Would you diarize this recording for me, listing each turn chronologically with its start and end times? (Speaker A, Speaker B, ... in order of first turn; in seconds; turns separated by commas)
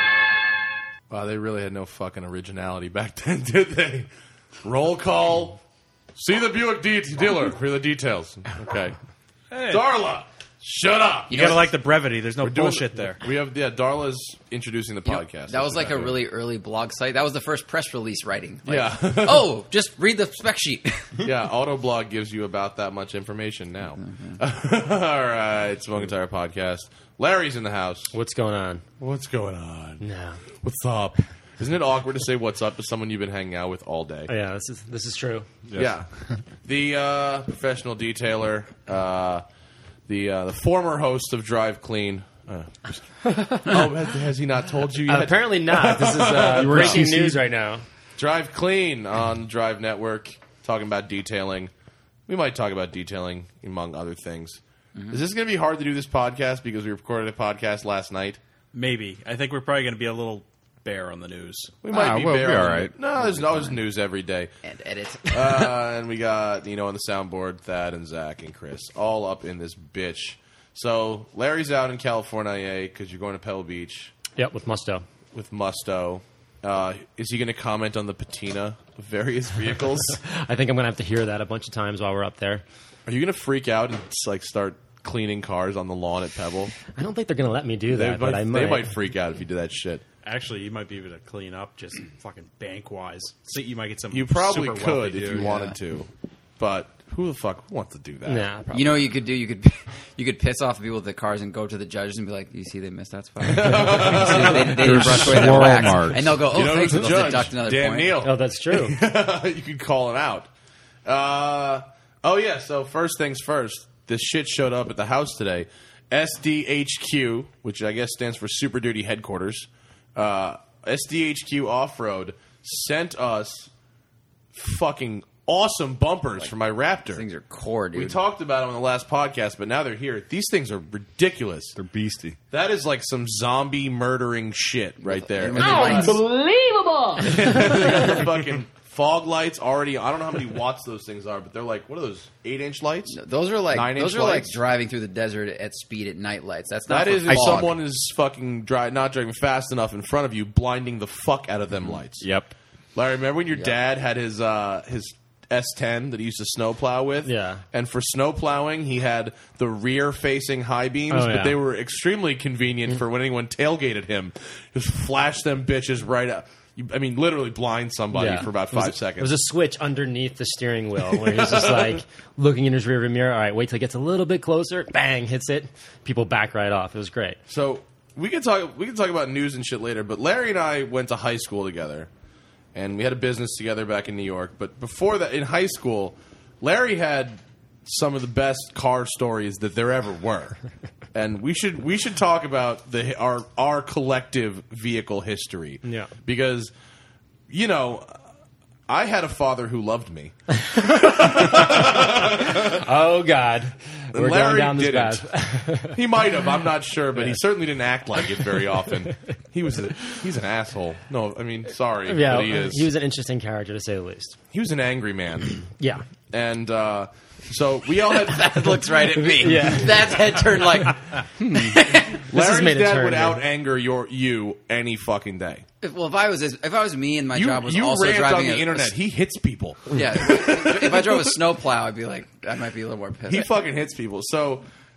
Speaker A: 1.1-4.1, Speaker A: 4.6-5.6, Speaker A: 6.2-9.0, Speaker B: 9.5-9.9, Speaker A: 9.6-11.6, Speaker B: 11.3-13.2, Speaker C: 11.3-11.7, Speaker A: 12.4-16.2, Speaker C: 15.1-21.2, Speaker A: 18.7-19.6, Speaker A: 21.2-28.1, Speaker C: 24.0-24.4, Speaker D: 28.1-28.8, Speaker A: 29.0-30.0, Speaker D: 30.0-30.4, Speaker A: 30.6-34.3, Speaker D: 34.3-35.5, Speaker E: 35.7-36.4, Speaker A: 35.8-36.1, Speaker A: 36.6-39.4, Speaker A: 40.1-47.1, Speaker D: 43.2-43.8, Speaker D: 45.1-47.8, Speaker E: 46.4-47.4, Speaker A: 48.2-51.7, Speaker A: 52.3-58.4, Speaker B: 58.7-61.8, Speaker A: 61.8-64.5, Speaker E: 61.9-63.0, Speaker C: 63.2-63.9, Speaker C: 64.6-65.8, Speaker A: 65.3-74.1, Speaker D: 74.4-75.0, Speaker A: 75.3-80.2, Speaker D: 80.2-82.6, Speaker A: 83.1-86.7, Speaker D: 87.0-88.9, Speaker A: 87.9-90.0, Speaker B: 90.2-95.6, Speaker A: 94.1-96.1, Speaker C: 95.3-95.8, Speaker A: 96.6-98.5, Speaker D: 98.3-99.1, Speaker C: 98.7-108.2, Speaker A: 103.4-110.5, Speaker E: 104.8-106.6, Speaker D: 108.2-109.0, Speaker A: 111.1-123.7, Speaker A: 124.5-127.2, Speaker C: 127.1-128.2, Speaker A: 127.9-131.8, Speaker E: 131.8-132.4, Speaker A: 132.5-136.2, Speaker C: 135.0-136.2, Speaker F: 135.5-138.0, Speaker A: 137.2-143.2, Speaker C: 143.1-147.8, Speaker A: 143.7-144.6, Speaker A: 146.9-152.2, Speaker E: 147.3-147.6, Speaker A: 152.9-169.3, Speaker C: 153.5-153.8, Speaker D: 157.2-157.6, Speaker D: 161.1-161.6, Speaker D: 168.1-177.4, Speaker A: 171.1-172.0, Speaker A: 177.5-182.1, Speaker A: 182.8-190.6, Speaker A: 191.1-196.7, Speaker D: 195.8-196.1, Speaker A: 197.5-198.2, Speaker A: 198.9-202.8, Speaker D: 202.7-206.0, Speaker A: 204.1-205.3, Speaker A: 205.8-212.9, Speaker D: 212.1-214.4, Speaker A: 214.5-215.6, Speaker D: 215.8-216.0, Speaker A: 216.3-219.1, Speaker C: 218.1-222.2, Speaker D: 219.2-220.2, Speaker D: 221.4-223.4, Speaker A: 222.2-225.6, Speaker C: 225.8-228.9, Speaker A: 227.3-231.3, Speaker C: 229.9-233.5, Speaker A: 233.3-234.7